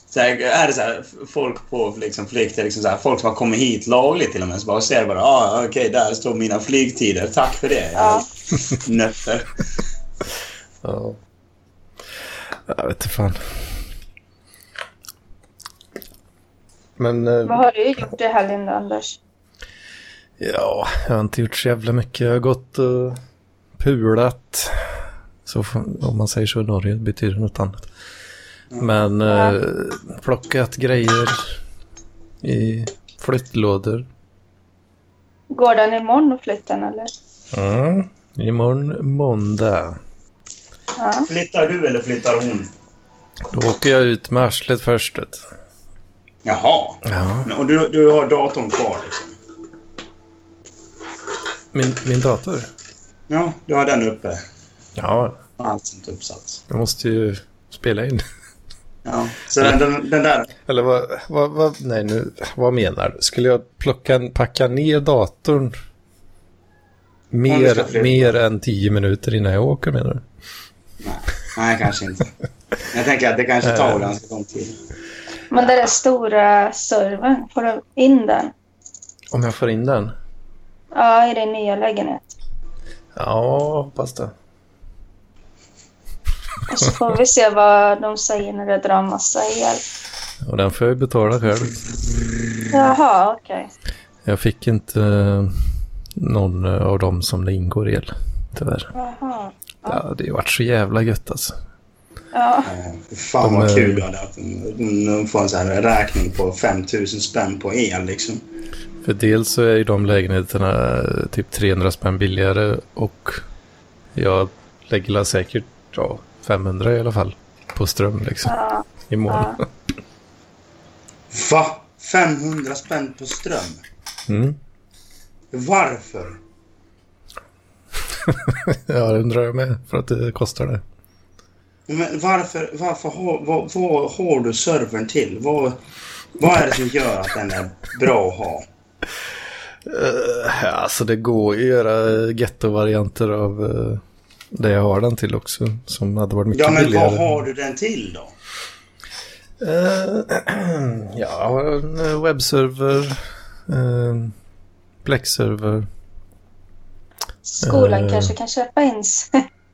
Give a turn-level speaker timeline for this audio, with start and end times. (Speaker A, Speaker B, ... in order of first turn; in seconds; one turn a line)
Speaker A: 0.1-9.6
Speaker B: 8.0-8.2
Speaker C: 10.8-11.2
Speaker C: 12.7-13.4
Speaker C: 17.0-17.6
Speaker B: 17.4-19.2
Speaker C: 20.4-23.2
Speaker C: 23.8-24.8
Speaker C: 25.4-27.9
Speaker C: 28.8-31.5
Speaker B: 29.3-29.6
Speaker C: 32.4-34.0
Speaker B: 35.5-37.1
Speaker C: 37.5-40.0
Speaker B: 41.0-41.3
Speaker A: 41.3-42.7
Speaker C: 43.5-45.4
Speaker A: 46.4-49.3
Speaker C: 47.0-47.5
Speaker C: 51.7-52.7
Speaker A: 53.3-54.4
Speaker C: 55.0-55.4
Speaker A: 55.6-56.6
Speaker C: 56.7-58.2
Speaker A: 59.0-60.5
Speaker C: 60.7-65.7
Speaker C: 67.3-70.2
Speaker A: 67.5-68.4
Speaker A: 71.0-72.3
Speaker A: 72.9-74.8
Speaker C: 73.6-74.0
Speaker B: 75.5-78.5
Speaker C: 79.3-80.1
Speaker B: 80.9-82.3
Speaker C: 83.1-84.3
Speaker B: 86.7-89.8
Speaker C: 90.4-91.8
Speaker B: 92.7-93.7
Speaker C: 94.2-95.6
Speaker C: 96.2-98.9
Speaker B: 98.9-100.0
Speaker C: 99.8-101.5
Speaker B: 102.3-102.7
Speaker A: 102.7-108.4
Speaker C: 103.4-104.0
Speaker C: 109.0-113.4
Speaker C: 114.1-118.5
Speaker B: 118.4-119.6
Speaker C: 119.1-119.7
Speaker A: 121.3-123.8
Speaker C: 124.3-124.6
Speaker A: 125.5-126.4
Speaker C: 128.2-130.8
Speaker A: 131.9-135.8
Speaker A: 136.4-138.7
Speaker C: 139.8-147.4
Speaker A: 146.5-148.3
Speaker C: 149.6-154.3
Speaker C: 155.0-155.9
Speaker B: 157.4-159.3
Speaker C: 157.6-158.3